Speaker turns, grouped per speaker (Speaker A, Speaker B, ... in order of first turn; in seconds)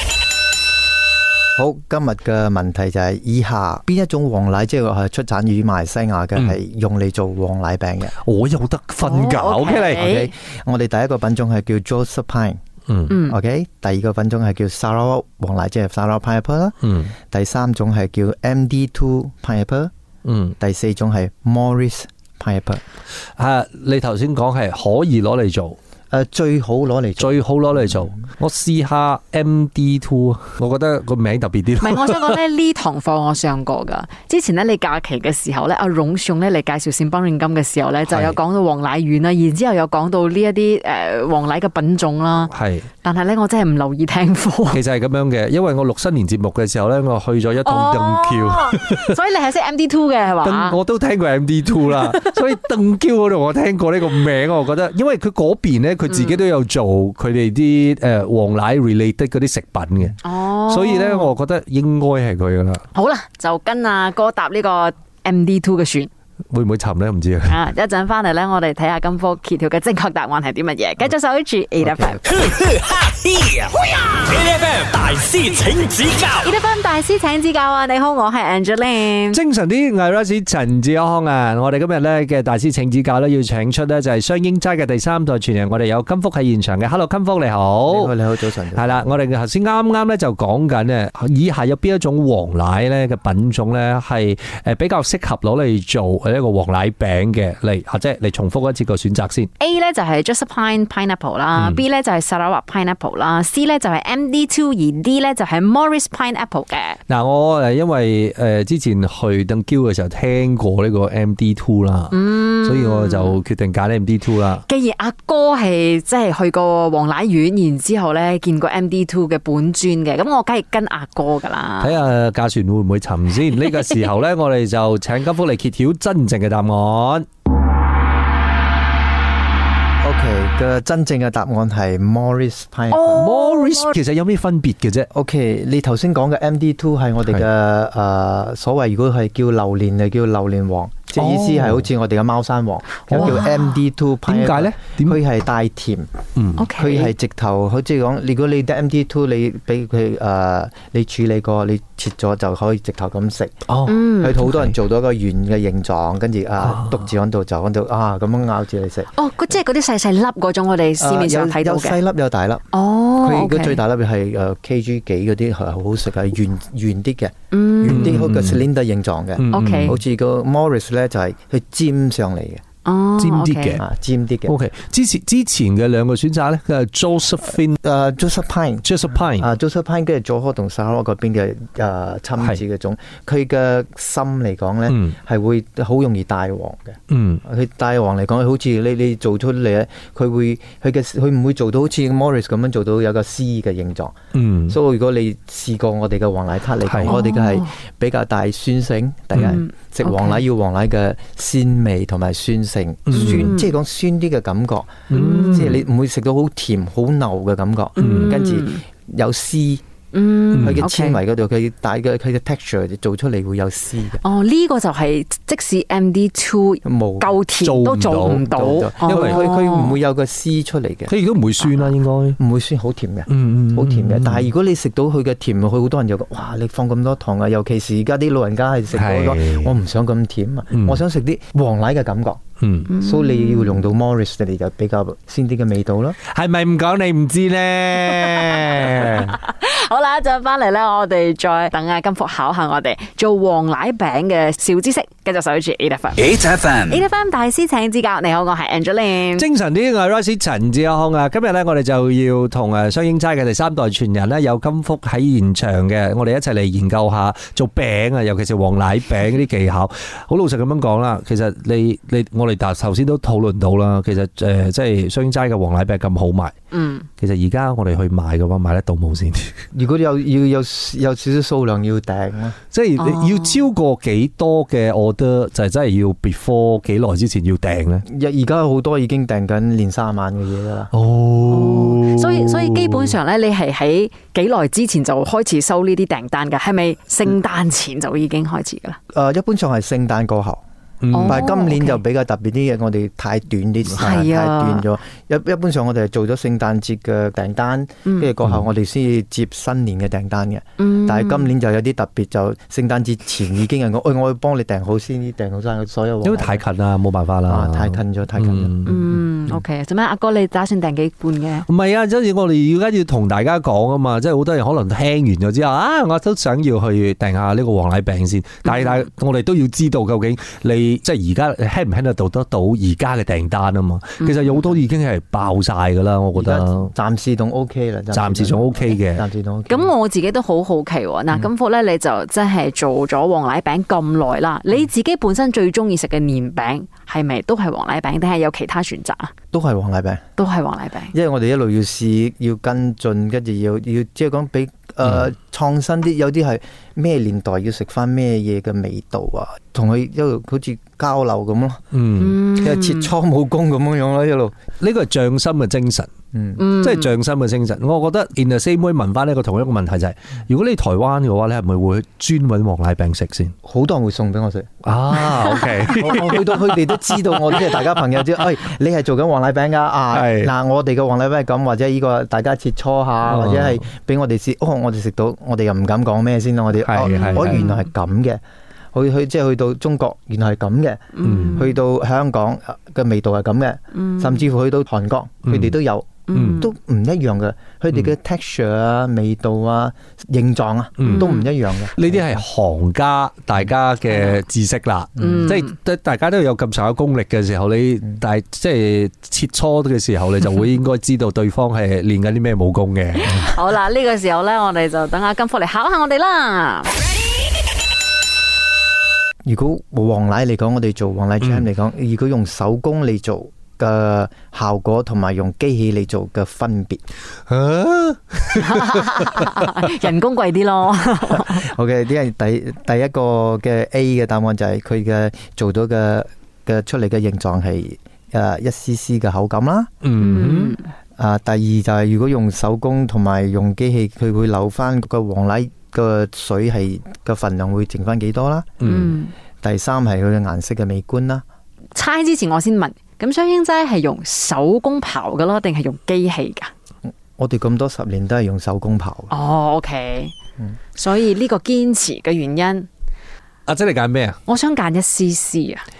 Speaker A: 1.6-8.2, 9.9-12.6, 13.2-19.9, 20.6-22.8, 26.1-28.2, 71.8-72.3, 87.9-89.1, 130.0-133.3, 135.1-146.1, 146.8-153.6, 154.2-159.1, 161.0-162.7, 163.2-172.6, 173.8-174.6, 177.8-194.2, 194.7-209.8, 210.6-214.2, 216.8-217.4, 218.2-221.1, 222.4-232.4, 232.9-236.2, 269.7-272.6, 278.1-280.9, 289.1-306.6, 307.5-308.8, 326.4-329.9, 339.5-340.2, 341.1-351.8, 352.5-354.6, 356.3-356.7, 363.6-378.4, 378.9-392.4, 395.2-395.5, 409.4-417.0, 421.3-429.9, 431.2-438.8, 439.6-441.4, 447.4-449.3
Speaker B: 8.2-10.1, 12.9-13.2, 16.8-17.1, 20.2-20.6, 23.4-25.8, 27.2-32.4, 38.1-38.4, 42.5-42.9, 44.7-49.2, 50.4-62.8, 66.5-67.5, 79.3-88.1, 88.8-99.5, 101.6-101.8, 107.1-114.6, 121.8-127.3, 133.1-135.1, 141.2-141.9, 143.1-143.4, 144.3-145.2, 146.4-146.7, 153.7-154.7, 156.6-157.1, 167.8-168.7, 169.4-170.0, 173.2-173.8, 174.5-177.8, 178.8-179.5, 184.9-185.2, 187.1-187.4, 194.3-194.8, 196.9-197.2, 203.1-203.6, 205.1-205.8, 208.0-208.4, 210.5-210.9, 217.6-218.5, 219.0-219.4, 221.1-222.4, 223.3-224.5, 228.9-229.7, 230.8-231.0, 232.6-232.9, 236.3-239.4, 249.4-266.5, 267.2-269.6, 272.7-278.1, 280.9-283.2, 291.0-291.4, 306.2-309.1, 311.7-326.9, 328.1-329.2, 351.9-352.4, 354.8-356.1, 356.7-363.5, 364.8-367.9, 370.1-370.5, 373.3-373.8, 376.8-377.6, 381.2-381.7, 385.4-385.8, 386.4-386.7, 391.0-403.4, 417.5-420.1, 430.0-430.8, 438.8-439.1, 453.7-454.4
Speaker C: 9.0-10.3, 13.1-13.4, 31.8-44.8, 47.6-50.8, 51.9-52.4, 56.1-56.4, 60.2-61.3, 62.9-66.1, 67.5-72.2, 76.4-79.4, 99.6-107.0, 112.1-113.4, 114.7-122.0, 132.9-134.0, 143.1-143.7, 146.6-147.1, 153.9-154.4, 159.2-162.0, 162.7-163.8, 167.5-168.2, 169.5-170.0, 172.8-173.8, 197.0-197.7, 199.4-200.4, 203.1-203.7, 205.1-205.8, 208.0-208.8, 210.1-211.2, 214.2-220.0, 221.6-221.9, 232.9-233.8, 238.2-249.5, 266.7-267.1, 273.0-273.7, 281.5-289.0, 291.1-292.0, 294.0-294.9, 298.1-298.3, 300.8-301.5, 308.9-311.7, 324.2-324.5, 329.7-339.3, 340.4-341.1, 352.2-353.1, 356.6-357.1, 377.1-377.9, 381.1-381.7, 383.9-384.5, 386.3-386.7, 391.1-391.5, 394.1-394.4, 395.2-395.7, 403.2-407.0, 418.6-421.6, 430.2-430.9, 438.8-439.3, 441.9-446.7, 449.3-450.3, 450.9-452.9, 454.5-455.8
Speaker D: 72.3-76.5, 246.2-247.0